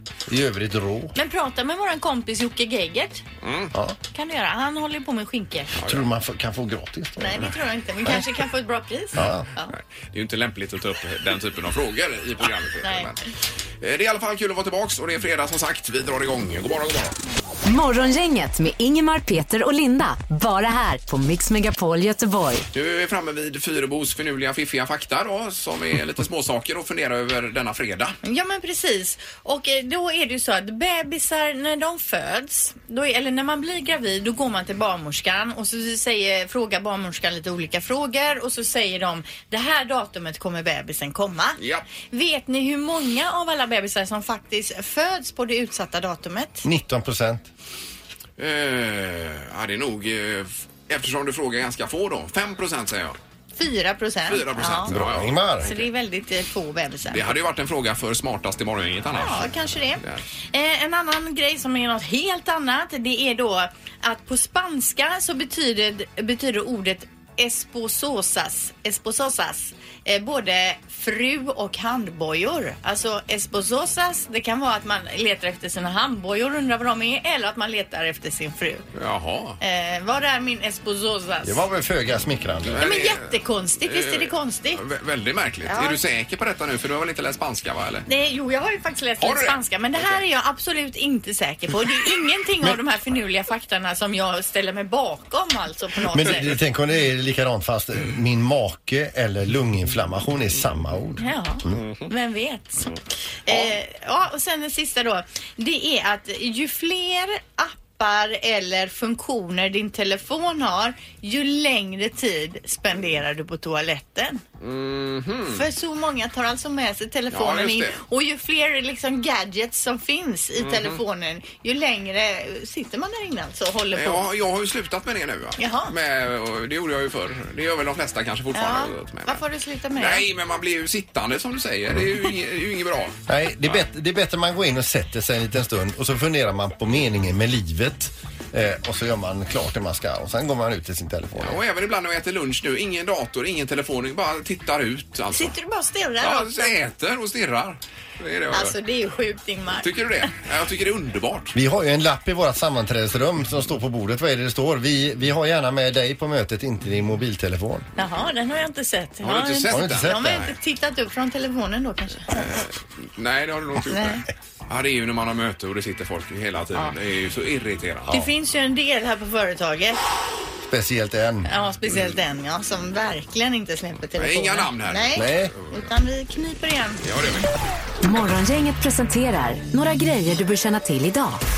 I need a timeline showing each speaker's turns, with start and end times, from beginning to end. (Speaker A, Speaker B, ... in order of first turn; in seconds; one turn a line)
Speaker A: 0.3-1.1
Speaker B: 1.1-3.2
Speaker C: 3.4-3.7
Speaker A: 3.7-4.0
Speaker B: 4.1-5.8
Speaker C: 5.8-6.0
Speaker A: 5.8-7.5
Speaker B: 7.2-9.7
Speaker A: 9.2-9.5
Speaker C: 9.7-13.2
Speaker B: 12.8-13.1
Speaker C: 13.8-17.2
Speaker D: 17.6-22.6
Speaker C: 22.7-28.2
Speaker B: 28.2-46.6
Speaker C: 41.6-41.9
Speaker A: 46.6-47.5
Speaker C: 48.4-53.2
Speaker B: 53.6-54.9
Speaker C: 54.3-55.8
Speaker A: 54.9-55.7
Speaker B: 55.6-57.4
Speaker C: 57.1-60.2
Speaker B: 59.2-78.9
Speaker C: 78.9-79.6
Speaker B: 79.6-81.6
Speaker A: 81.4-82.9
Speaker C: 82.7-88.1
Speaker B: 82.8-84.8
Speaker B: 85.7-86.0
Speaker B: 88.1-96.6
Speaker C: 89.2-90.2
Speaker A: 96.1-101.8
Speaker B: 101.2-103.0
Speaker C: 101.8-102.1
Speaker B: 103.5-114.4
Speaker C: 114.6-115.7
Speaker B: 115.5-124.2
Speaker C: 117.3-118.0
Speaker C: 120.6-121.0
Speaker C: 123.9-129.4
Speaker B: 125.6-125.9
Speaker B: 128.5-130.2
Speaker C: 130.0-133.8
Speaker A: 133.3-141.6
Speaker C: 141.4-145.6
Speaker B: 145.3-146.7
Speaker C: 146.2-148.8
Speaker B: 148.5-149.9
Speaker C: 149.8-151.5
Speaker A: 151.5-157.9
Speaker B: 158.0-162.4
Speaker C: 159.2-160.5
Speaker A: 159.7-160.5
Speaker C: 162.3-168.1
Speaker B: 163.8-164.2
Speaker B: 168.1-170.0
Speaker A: 170.7-171.5
Speaker B: 171.4-177.0
Speaker C: 174.2-175.8
Speaker A: 175.2-175.5
Speaker C: 177.0-177.5
Speaker D: 178.0-181.4